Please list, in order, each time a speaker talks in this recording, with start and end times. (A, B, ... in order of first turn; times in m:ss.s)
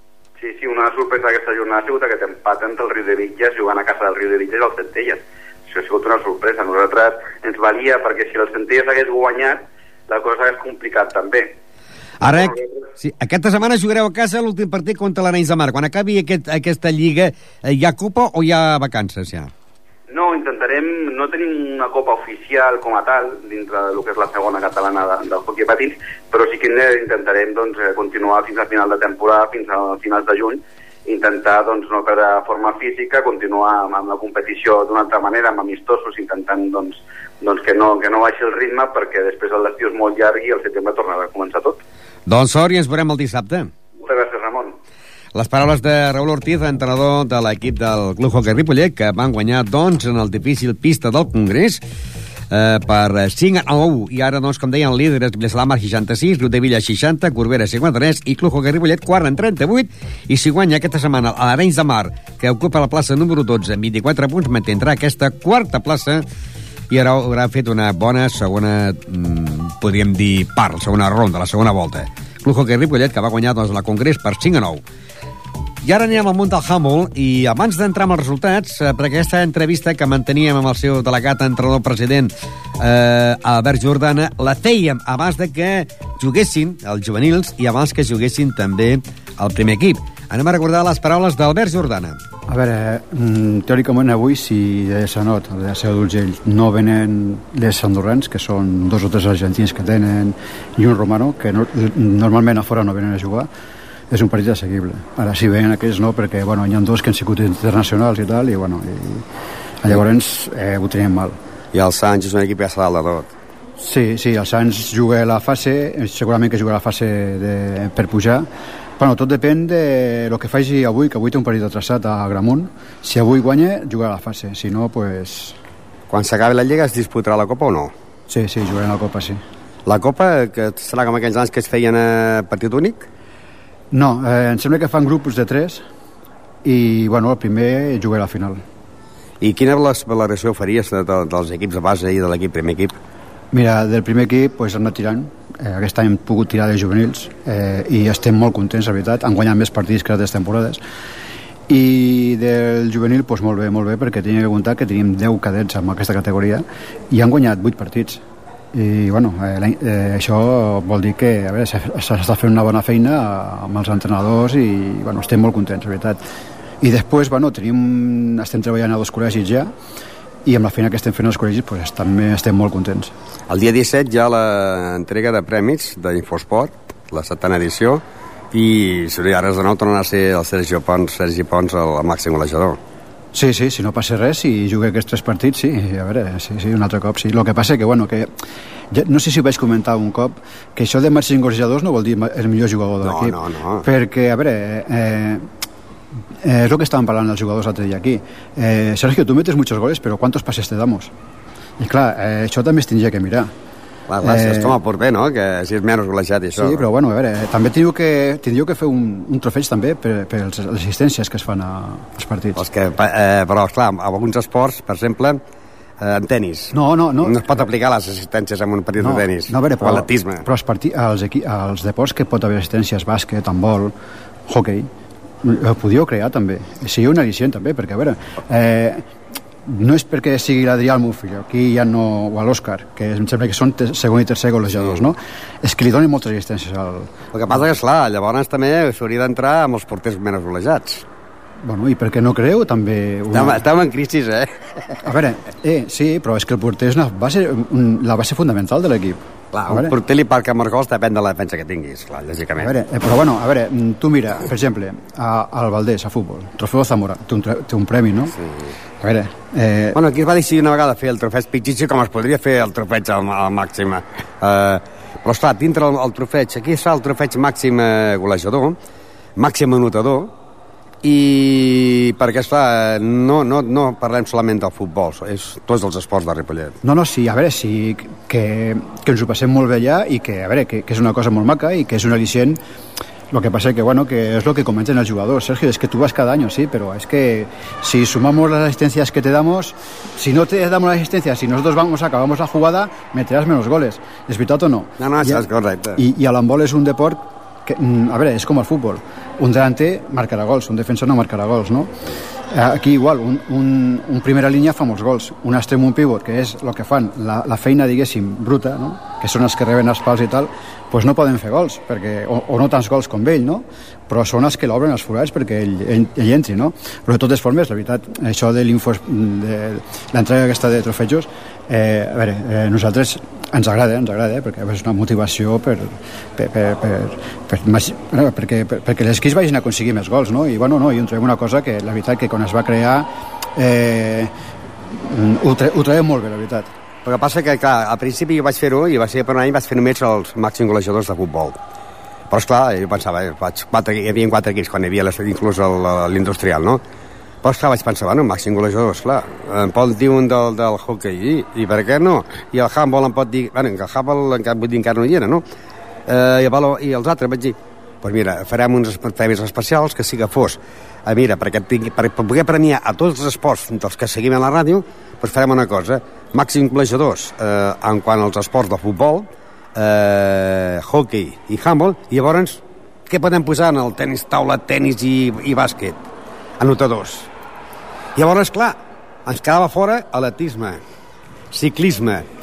0:00.4-0:11.6 A
0:12.2-0:19.5 B
0:12.2-0:12.6 A
0:20.1-0:41.8 A
0:42.3-0:43.7 B
0:44.0-0:44.8 A
0:45.3-0:51.8 B
0:52.5-1:06.2 B
1:06.9-1:14.8 B
1:15.8-1:32.2 B
1:32.5-1:43.5 C
1:44.1-1:49.2 C
1:49.8-1:51.4 C
1:51.7-1:53.3 B
1:53.8-1:58.5 C
1:59.0-2:05.6 C
2:06.1-2:07.9 B
2:08.3-2:09.4 C
2:09.8-2:13.1 B
2:13.9-2:15.8 C
2:16.6-2:18.6 C
2:19.4-2:23.0 B
2:23.5-2:30.8 C
2:31.7-2:38.2 C
2:38.7-2:46.2 C
2:46.8-2:49.7 C
2:50.4-2:53.1 C
2:53.5-3:02.8 B
3:03.3-3:08.3 C
3:08.9-3:15.5 C
3:13.0-3:13.8 B
3:16.4-3:21.1 C
3:21.8-3:23.5 C
3:24.1-3:26.8 B
3:24.2-3:24.8 C
3:26.5-3:32.6 C
3:32.6-3:35.4 B
3:36.0-3:40.4 B
3:36.7-3:37.6 C
3:39.0-3:43.9 C
3:44.5-3:44.9 C
3:45.4-3:49.0 C
3:49.6-3:57.1 C
3:57.3-4:01.0 B
4:01.6-4:03.6 C
4:03.3-4:05.0 B
4:05.0-4:09.9 C
4:09.5-4:12.7 B
4:12.6-4:18.3 C
4:18.4-4:18.7 B
4:19.0-4:20.0 C
4:19.9-4:28.8 B
4:29.4-4:30.3 B
4:31.0-4:36.8 B
4:36.8-4:42.6 C
4:43.3-4:55.4 C
4:55.0-4:56.0 B
4:56.0-5:01.9 C
5:02.5-5:34.3 C
5:34.9-5:36.7 C
5:37.0-5:41.6 B
5:42.3-5:46.8 B
5:47.4-5:55.4 B
5:56.1-6:16.0 B
6:16.6-6:17.3 B
6:18.2-6:20.8 B
6:21.5-6:22.2 B